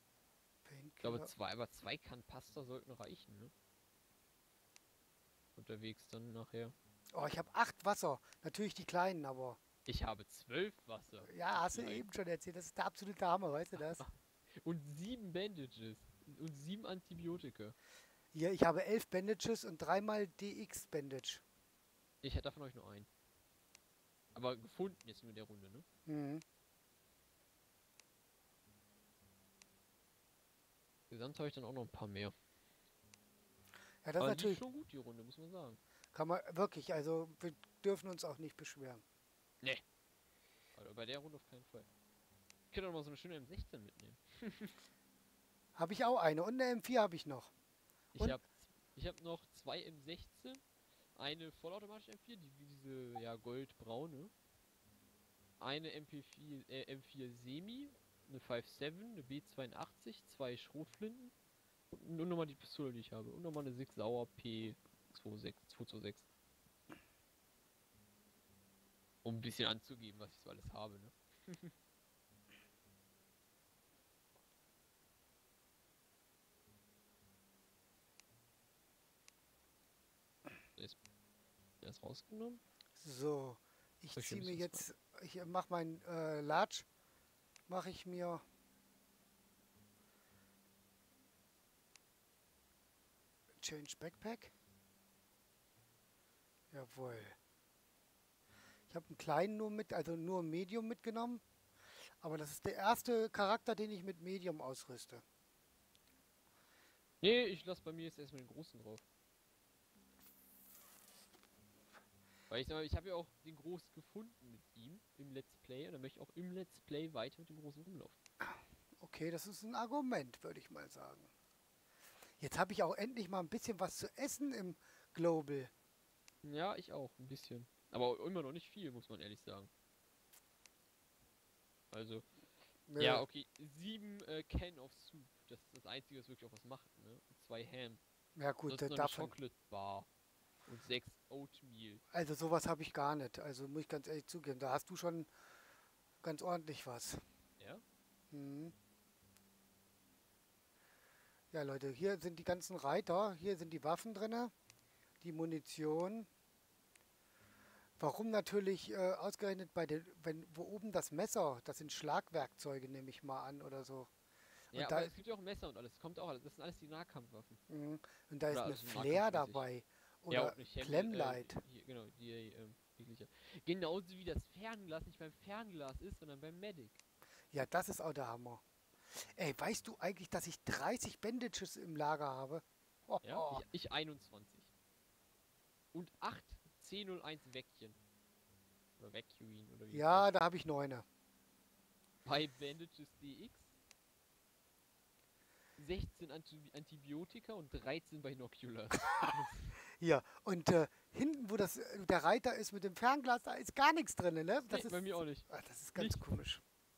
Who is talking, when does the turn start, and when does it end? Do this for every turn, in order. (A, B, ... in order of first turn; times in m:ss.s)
0:00.6-0:01.3 A
0:01.0-0:03.5 B
0:05.6-0:06.7 B
0:07.1-0:09.6 A
0:09.9-0:12.1 B
0:11.2-0:14.0 A
0:14.6-0:17.8 B
0:18.3-0:21.4 A
0:22.2-0:23.1 B
0:24.4-0:25.8 B
0:26.1-0:26.4 A
0:31.1-0:32.3 B
0:34.0-0:34.6 A
0:34.2-0:35.8 B
0:36.1-0:39.0 A
0:40.8-0:41.9 B
0:42.7-0:44.7 B
0:45.8-0:47.5 A
0:48.2-0:50.6 B
0:51.2-0:54.3 B
0:55.6-1:01.3 B
1:01.9-1:06.3 B
1:09.2-1:11.7 B
1:21.8-1:22.6 B
1:23.0-1:26.9 A
1:24.2-1:24.8 B
1:27.7-1:28.4 A
1:33.6-1:34.5 A
1:36.7-1:37.4 A
1:38.9-1:41.4 A
1:42.2-1:45.2 A
1:47.2-1:49.0 B
1:52.5-1:58.2 B
1:58.4-2:01.3 A
2:02.4-2:05.7 A
2:06.4-2:09.7 B
2:11.9-2:12.3 B
2:12.9-2:13.2 A
2:13.0-2:18.0 B
2:18.4-2:19.4 A
2:18.7-2:20.1 B
2:20.7-2:22.0 B
2:22.1-2:25.3 A
2:26.2-2:27.2 A
2:28.3-2:28.7 A
2:31.5-2:34.5 A
2:35.2-2:36.3 A
2:38.0-2:44.1 A
2:44.7-2:45.2 A
2:44.7-2:47.6 B
2:47.7-2:51.6 A
2:48.5-2:49.7 B
2:50.3-2:57.0 B
2:57.5-2:58.6 A
2:59.4-3:03.6 A
3:03.2-3:04.7 B
3:05.9-3:08.0 B
3:09.0-3:10.3 B
3:09.9-3:11.0 A
3:12.2-3:13.7 B
3:15.8-3:19.7 B
3:20.0-3:26.6 A
3:24.7-3:26.3 B